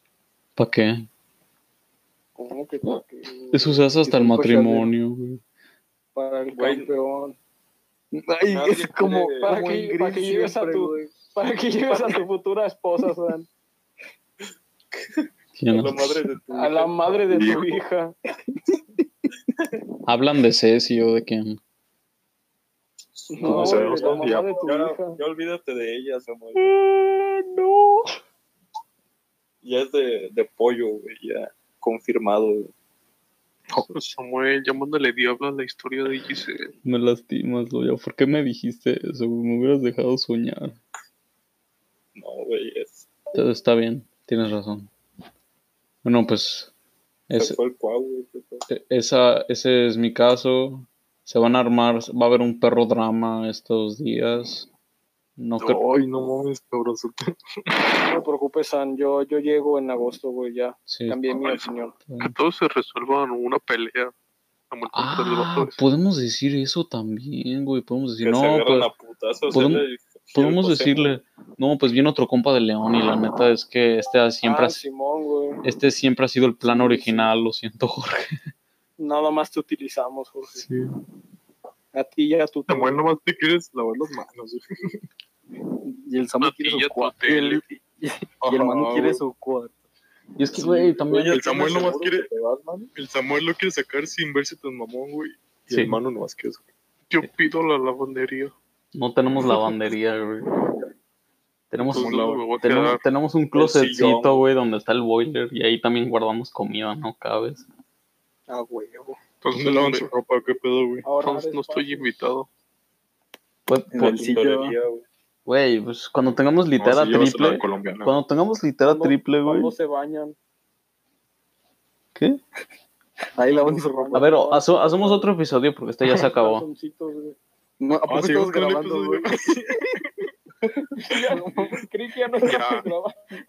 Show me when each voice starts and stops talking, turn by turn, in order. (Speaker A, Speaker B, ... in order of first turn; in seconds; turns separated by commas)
Speaker A: 0.6-1.1, Speaker B: 2.4-3.8, Speaker A: 3.5-5.4, Speaker C: 4.0-4.9, Speaker B: 6.2-7.4, Speaker D: 6.5-6.9, Speaker C: 8.1-11.1, Speaker D: 8.5-9.6, Speaker B: 9.4-13.5, Speaker D: 14.9-17.6, Speaker A: 15.6-16.2, Speaker B: 16.5-18.1, Speaker E: 17.3-17.6, Speaker A: 20.1-21.6, Speaker D: 23.1-26.8, Speaker B: 23.3-25.2, Speaker E: 23.4-24.5, Speaker B: 26.6-28.1, Speaker D: 29.6-32.7, Speaker F: 33.9-36.7, Speaker A: 36.9-40.8, Speaker D: 42.1-43.1, Speaker A: 43.3-44.9, Speaker A: 46.0-46.7, Speaker A: 47.3-47.6, Speaker D: 47.3-48.7, Speaker A: 48.7-54.7, Speaker A: 55.4-55.8, Speaker E: 55.6-57.8, Speaker B: 58.0-62.0, Speaker A: 60.9-61.3, Speaker A: 62.1-62.4, Speaker F: 62.2-64.1, Speaker F: 64.7-65.8, Speaker A: 64.9-68.9, Speaker D: 68.2-71.2, Speaker A: 69.5-74.8, Speaker B: 74.4-75.6, Speaker A: 75.6-78.4, Speaker B: 76.6-77.3, Speaker B: 79.0-80.6, Speaker A: 80.6-81.0, Speaker B: 81.9-83.0, Speaker E: 82.7-85.0, Speaker C: 85.8-89.7, Speaker F: 86.4-87.6, Speaker E: 88.4-89.2, Speaker A: 90.4-91.4, Speaker D: 90.6-92.9, Speaker E: 91.3-92.3, Speaker E: 93.0-96.7, Speaker A: 95.7-96.0, Speaker F: 97.1-98.5, Speaker A: 99.0-100.6, Speaker A: 101.7-107.6, Speaker F: 101.8-103.0, Speaker E: 101.9-102.6, Speaker D: 103.5-104.5, Speaker B: 108.5-109.2, Speaker F: 109.4-110.2, Speaker E: 109.5-111.0, Speaker B: 111.0-112.1, Speaker F: 111.1-112.5, Speaker A: 113.7-114.2, Speaker C: 114.0-114.8, Speaker D: 114.0-115.0, Speaker A: 115.5-119.7, Speaker E: 116.8-118.2, Speaker B: 118.9-120.4, Speaker C: 123.3-124.3, Speaker B: 123.5-125.3, Speaker A: 124.1-126.7, Speaker B: 126.4-127.4, Speaker C: 127.8-129.7, Speaker E: 128.1-129.8, Speaker B: 131.0-133.1